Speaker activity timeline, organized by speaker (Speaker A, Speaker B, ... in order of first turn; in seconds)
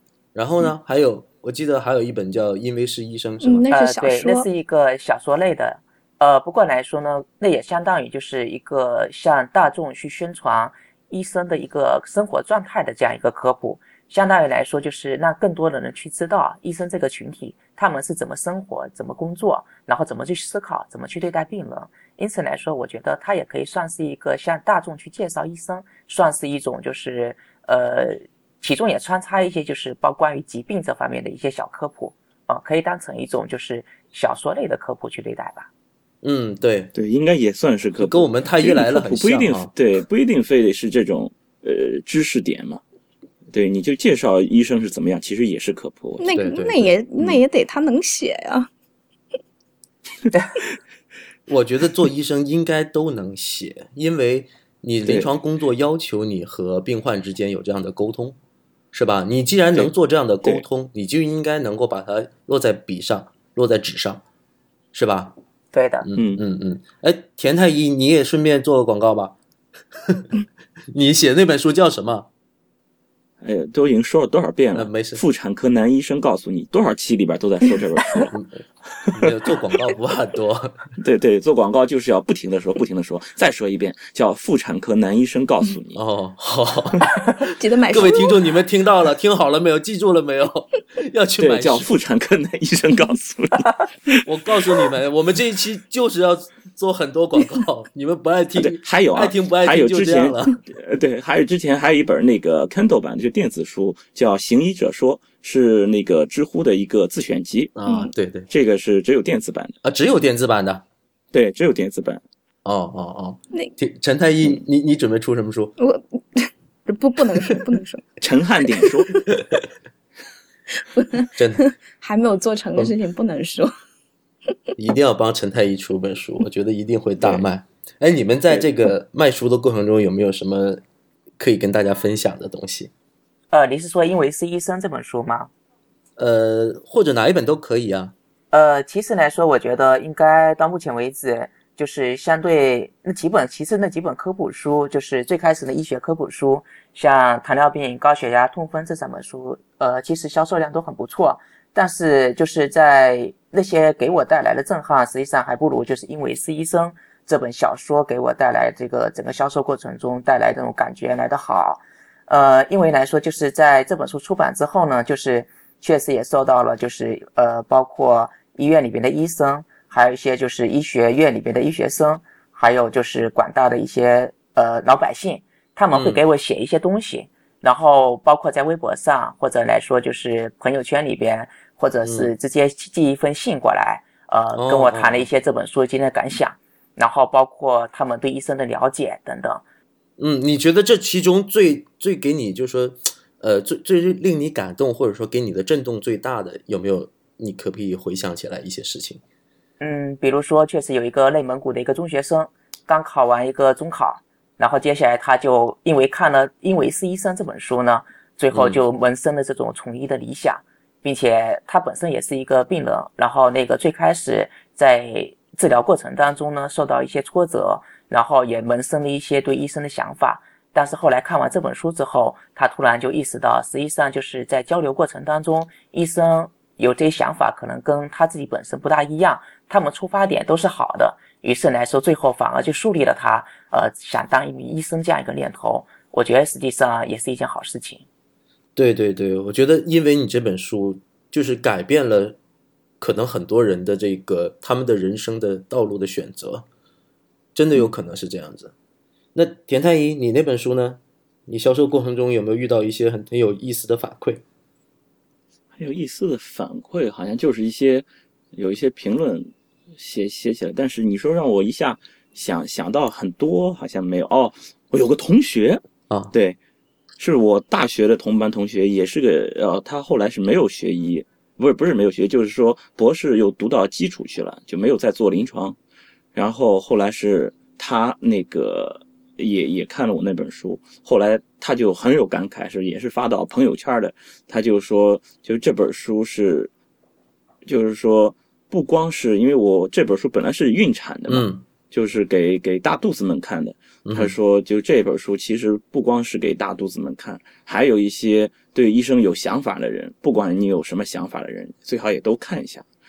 Speaker A: 0.3-3.7, 36.2-36.9, 38.0-39.7, 46.3-47.4, 51.5-58.4, 58.9-64.2, 64.9-65.3, 66.0-69.3, 70.0-70.3, 70.9-72.3, 74.7-75.2, 78.3-78.6, 79.1-80.8, 86.0-91.9, 94.2-100.6, 107.8-108.5, 109.8-110.8, 112.7-115.7, 121.3-121.7, 124.8-130.8, 131.4-132.9, 136.2-138.1, 175.9-176.2, 182.0-182.3, 184.6-185.3, 190.2-199.2, 208.5-208.8, 238.8-242.4, 243.0-246.7, 247.6-248.7, 249.3-254.4, 291.3-291.6, 294.1-294.4
Speaker B: 3.4-4.5, 46.2-48.7, 87.4-88.3, 107.8-108.1, 115.8-118.1, 118.8-119.3, 120.9-123.7
Speaker C: 3.7-35.7, 65.7-66.1, 133.5-135.5, 138.5-189.6, 199.8-238.1
Speaker D: 36.9-42.8, 43.5-46.3, 55.0-55.3, 66.2-66.4, 73.4-78.3, 79.0-79.3, 81.0-86.0, 91.4-94.2, 98.6-107.7, 108.5-109.8, 111.3-112.2, 118.2-119.2, 255.8-265.8, 266.3-266.6, 267.2-275.8, 276.4-286.7, 287.6-302.9